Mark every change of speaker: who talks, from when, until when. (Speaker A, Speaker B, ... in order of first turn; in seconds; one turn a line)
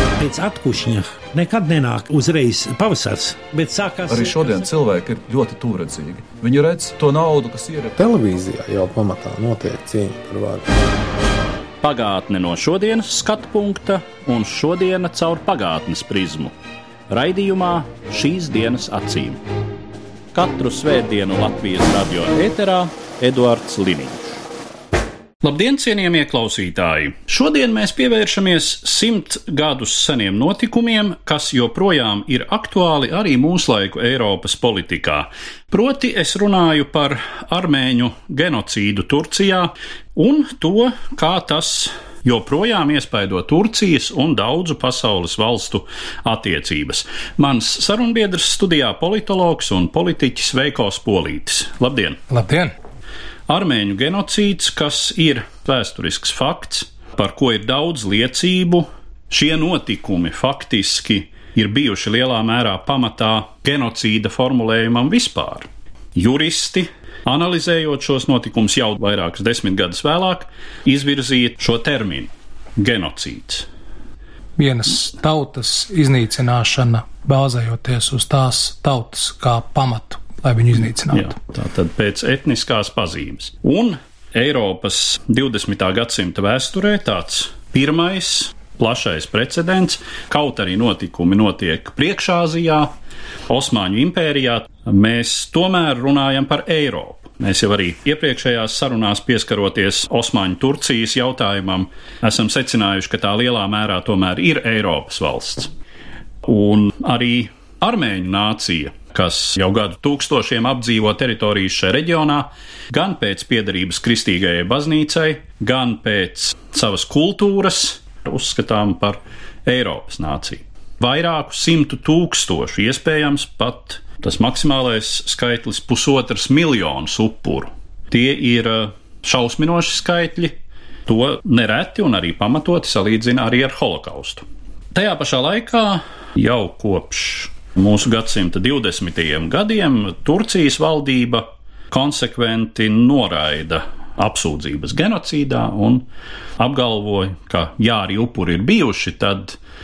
Speaker A: 0.2-4.3
Speaker B: 4.1-8.0
Speaker C: 8.0-10.7
Speaker D: 11.8-16.5
Speaker D: 17.1-19.4
Speaker D: 20.3-24.4
Speaker D: 25.4-52.2
Speaker E: 52.3-52.7
Speaker D: 53.5-73.7
Speaker E: 74.6-81.3
Speaker D: 81.1-92.9
Speaker D: 93.5-105.7
Speaker D: 106.4-146.1
Speaker D: 146.6-149.6